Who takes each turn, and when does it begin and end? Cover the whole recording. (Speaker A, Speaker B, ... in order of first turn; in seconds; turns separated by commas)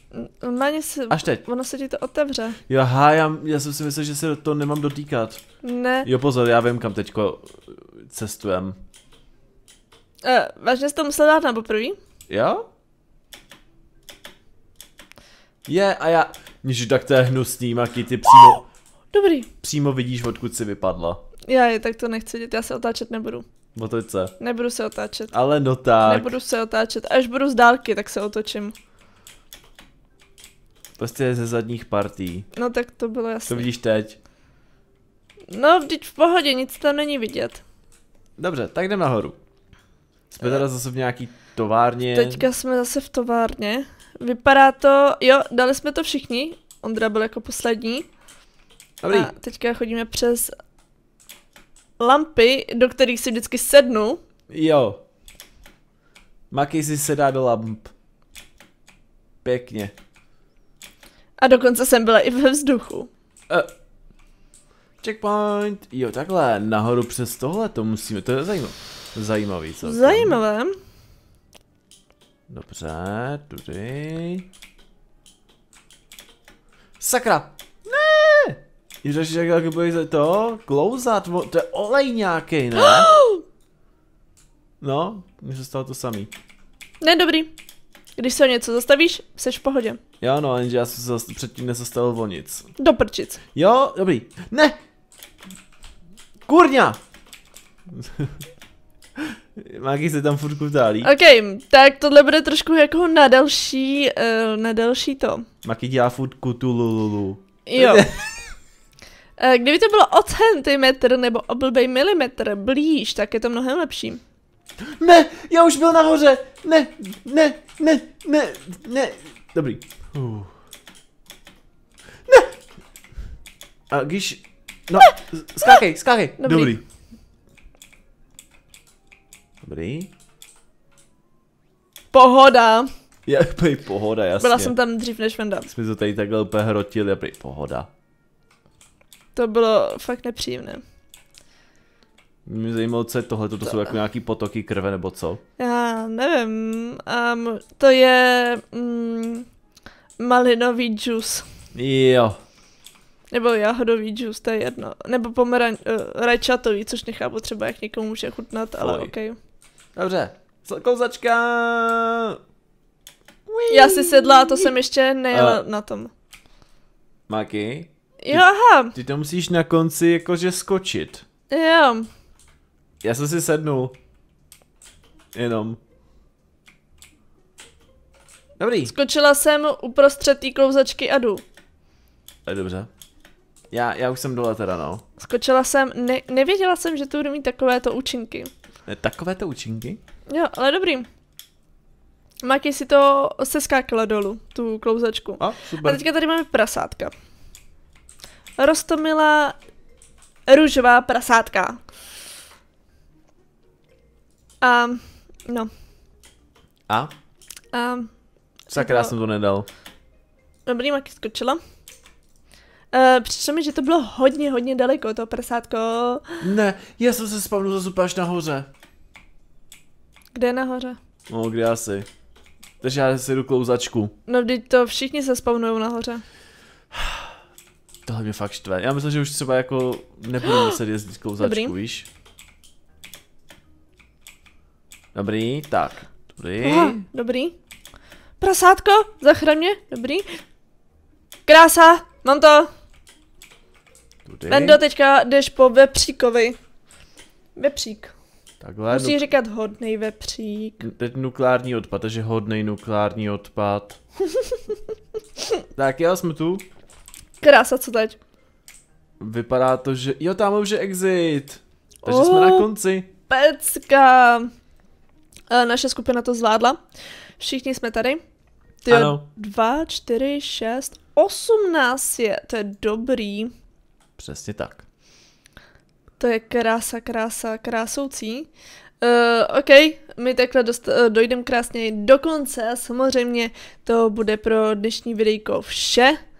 Speaker A: 0.1-2.6, Speaker B: 1.1-1.4, Speaker B: 2.7-5.4, Speaker A: 5.6-6.1, Speaker B: 6.0-8.8, Speaker A: 10.2-12.0, Speaker B: 12.3-12.6, Speaker B: 15.7-18.6, Speaker A: 19.1-19.5, Speaker B: 19.6-21.2, Speaker A: 21.5-23.4, Speaker B: 23.8-24.3, Speaker A: 24.4-25.3, Speaker B: 25.3-26.3, Speaker A: 26.0-28.8, Speaker B: 31.0-32.5, Speaker A: 32.5-33.7, Speaker B: 33.5-34.2, Speaker A: 35.5-37.6, Speaker B: 38.4-39.4, Speaker B: 40.4-42.5, Speaker A: 42.1-48.1, Speaker B: 49.0-49.3, Speaker A: 49.1-50.5, Speaker A: 52.0-54.2, Speaker B: 54.5-55.0, Speaker B: 56.5-57.9, Speaker B: 59.4-59.9, Speaker A: 61.4-63.1, Speaker B: 65.0-70.4, Speaker A: 69.8-70.8, Speaker B: 72.5-74.5, Speaker B: 77.0-83.1, Speaker A: 82.8-83.4, Speaker B: 84.8-86.3, Speaker A: 87.0-87.5, Speaker A: 88.2-90.0, Speaker B: 90.2-92.7, Speaker A: 92.8-93.4, Speaker B: 93.5-94.8, Speaker B: 96.5-97.0, Speaker B: 97.9-98.4, Speaker B: 99.2-101.1, Speaker A: 101.0-105.5, Speaker B: 105.6-108.3, Speaker A: 107.7-108.1, Speaker A: 109.4-114.2, Speaker B: 115.0-120.5, Speaker B: 123.9-126.8, Speaker A: 126.4-126.8, Speaker B: 129.6-130.1, Speaker A: 132.1-132.9, Speaker B: 133.3-134.8, Speaker A: 134.4-135.7, Speaker B: 135.7-137.9, Speaker A: 139.4-140.8, Speaker B: 142.5-145.4, Speaker A: 145.6-149.5, Speaker A: 150.2-151.4, Speaker B: 151.8-152.4, Speaker A: 153.3-159.4, Speaker B: 158.8-159.1, Speaker B: 160.0-162.4, Speaker B: 163.5-164.8, Speaker A: 163.7-166.1, Speaker B: 165.3-165.6, Speaker B: 167.3-171.2, Speaker A: 168.2-168.9, Speaker A: 171.5-172.1, Speaker B: 173.0-173.9, Speaker B: 175.3-175.8, Speaker B: 178.6-178.9, Speaker A: 178.9-181.4, Speaker B: 182.5-182.9, Speaker B: 183.7-185.0, Speaker A: 185.2-188.5, Speaker B: 188.9-190.0, Speaker A: 190.3-191.1, Speaker A: 192.4-197.1, Speaker B: 195.4-196.0, Speaker A: 198.6-199.6, Speaker A: 200.5-201.8, Speaker A: 204.6-205.7, Speaker A: 207.7-208.1, Speaker A: 208.7-209.2, Speaker B: 208.7-209.7, Speaker A: 210.7-211.6, Speaker A: 212.9-216.4, Speaker B: 216.4-218.7, Speaker A: 220.3-221.0, Speaker B: 221.3-222.1, Speaker B: 222.8-224.1, Speaker A: 224.3-226.2, Speaker B: 226.9-227.2, Speaker B: 228.1-232.1, Speaker A: 230.4-230.8, Speaker A: 231.4-231.7, Speaker B: 235.1-237.0, Speaker A: 236.6-237.6, Speaker A: 238.4-240.2, Speaker A: 241.5-242.7, Speaker B: 244.3-244.8, Speaker A: 244.5-246.6, Speaker A: 247.6-248.1, Speaker B: 248.6-249.2, Speaker A: 248.9-250.9, Speaker B: 250.8-254.0, Speaker B: 255.8-256.6, Speaker A: 257.4-258.2, Speaker B: 259.2-263.1, Speaker A: 262.0-262.7, Speaker A: 263.3-264.5, Speaker A: 265.5-266.8, Speaker A: 267.4-268.2, Speaker A: 268.9-273.5, Speaker B: 268.9-269.2, Speaker B: 274.2-274.8, Speaker A: 276.2-278.5, Speaker A: 279.0-286.2